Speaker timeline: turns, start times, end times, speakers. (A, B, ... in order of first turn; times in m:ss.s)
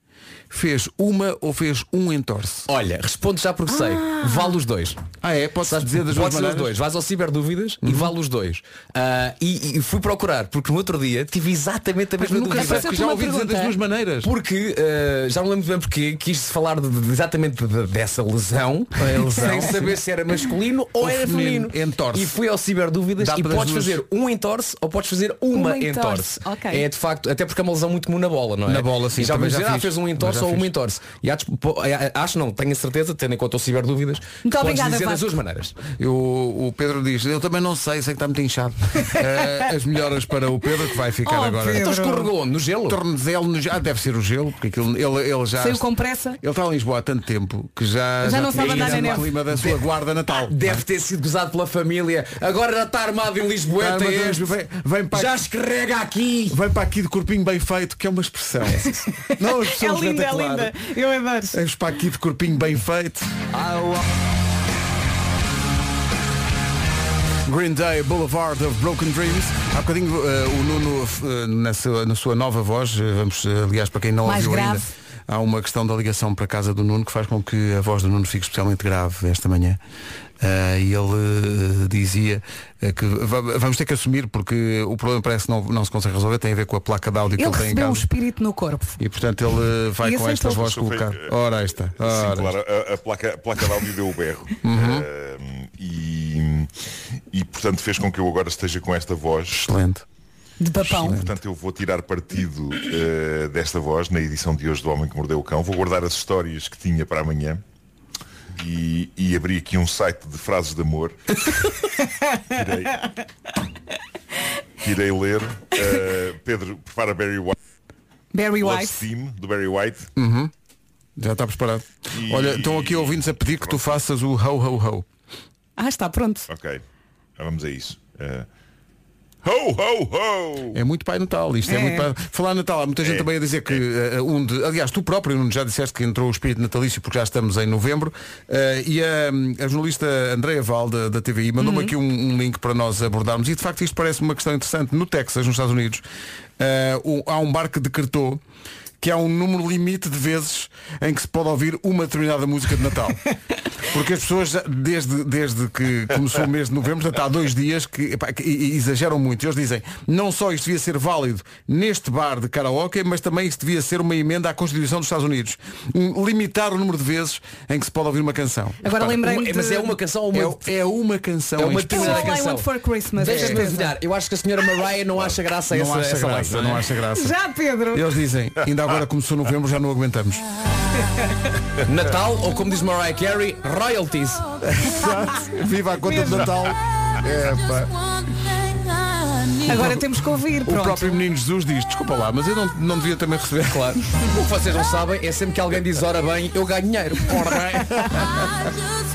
0:00.5-0:02.7 A
0:02.7-0:05.0 B
0:03.7-0:04.6 C
0:05.2-0:06.7 A
0:05.7-0:12.9 B
0:07.8-0:08.1 A
0:12.2-0:14.3 A
0:12.5-0:13.8 C
0:14.2-0:35.8 B
0:19.0-0:20.0 A
0:21.0-0:22.4 A
0:23.2-0:24.0 A
0:25.5-0:26.8 C
0:28.7-0:30.7 A
0:34.4-0:35.2 C
0:36.0-0:41.9 A
0:41.2-0:42.3 C
0:41.7-0:43.0 B
0:42.9-0:45.9 A
0:45.6-0:46.4 C
0:46.4-0:50.8 A
0:48.2-0:49.2 C
0:48.6-0:49.8 B
0:50.5-0:54.5 B
0:53.8-0:55.4 A
0:55.1-0:56.6 B
0:56.5-1:00.8 A
0:59.0-1:01.6 C
1:01.5-1:03.3 A
1:07.5-1:19.8 A
1:14.2-1:14.9 C
1:20.4-1:28.1 A
1:27.4-1:29.0 C
1:29.0-1:32.6 A
1:30.0-1:30.7 C
1:30.5-1:31.3 D
1:32.0-1:36.7 D
1:34.6-1:35.1 A
1:37.3-1:39.6 D
1:39.5-1:40.0 A
1:40.6-1:41.2 C
1:40.9-1:41.3 A
1:41.0-1:47.6 D
1:48.6-1:51.2 D
1:52.5-1:53.0 D
1:54.8-1:57.6 D
1:58.3-1:59.1 C
1:58.6-2:00.1 D
2:00.2-2:00.5 A
2:01.2-2:05.1 A
2:02.1-2:04.0 D
2:05.8-2:06.5 C
2:06.5-2:06.8 D
2:07.4-2:08.5 D
2:09.4-2:10.8 D
2:10.7-2:26.0 A
2:11.7-2:12.1 C
2:21.6-2:21.9 C
2:26.6-2:28.4 A
2:29.0-2:33.2 A
2:33.8-2:49.0 A
2:48.8-2:49.9 C
2:49.0-2:50.7 B
2:50.3-2:52.4 A
2:51.6-2:56.9 B
2:51.9-2:53.9 C
2:53.3-2:53.7 A
2:55.7-2:57.4 A
2:57.1-2:58.1 C
2:57.9-3:00.4 A
3:01.9-3:04.6 B
3:04.6-3:07.9 A
3:06.1-3:06.4 C
3:09.7-3:11.2 C
3:09.7-3:14.0 A
3:13.7-3:17.9 B
3:17.3-3:18.4 A